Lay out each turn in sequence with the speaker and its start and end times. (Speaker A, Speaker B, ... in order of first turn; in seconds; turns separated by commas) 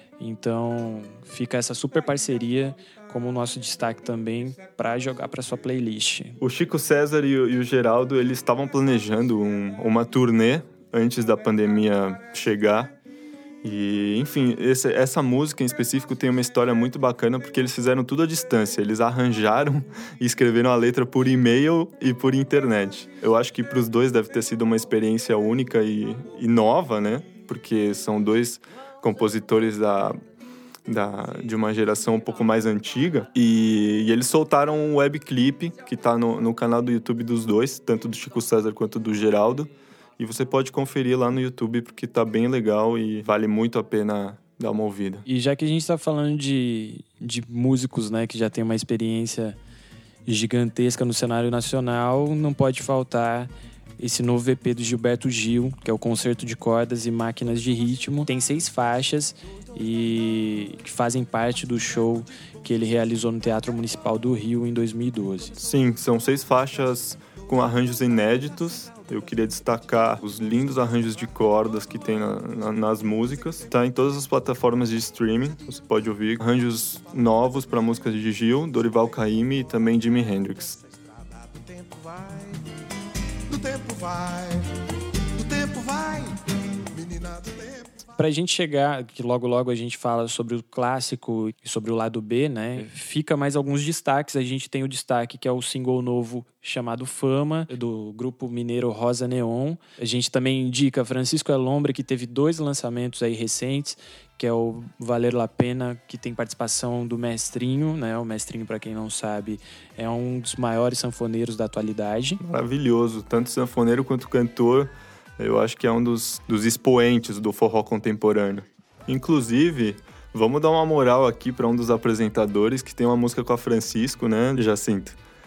Speaker A: 0.2-6.4, Speaker B: 6.4-12.9, Speaker B: 13.6-30.2, Speaker B: 30.9-45.2, Speaker A: 45.2-49.6, Speaker A: 50.2-65.6, Speaker B: 65.6-80.8, Speaker C: 80.8-82.7, Speaker C: 83.5-84.7, Speaker C: 85.2-87.9, Speaker A: 88.2-112.4, Speaker B: 112.4-125.2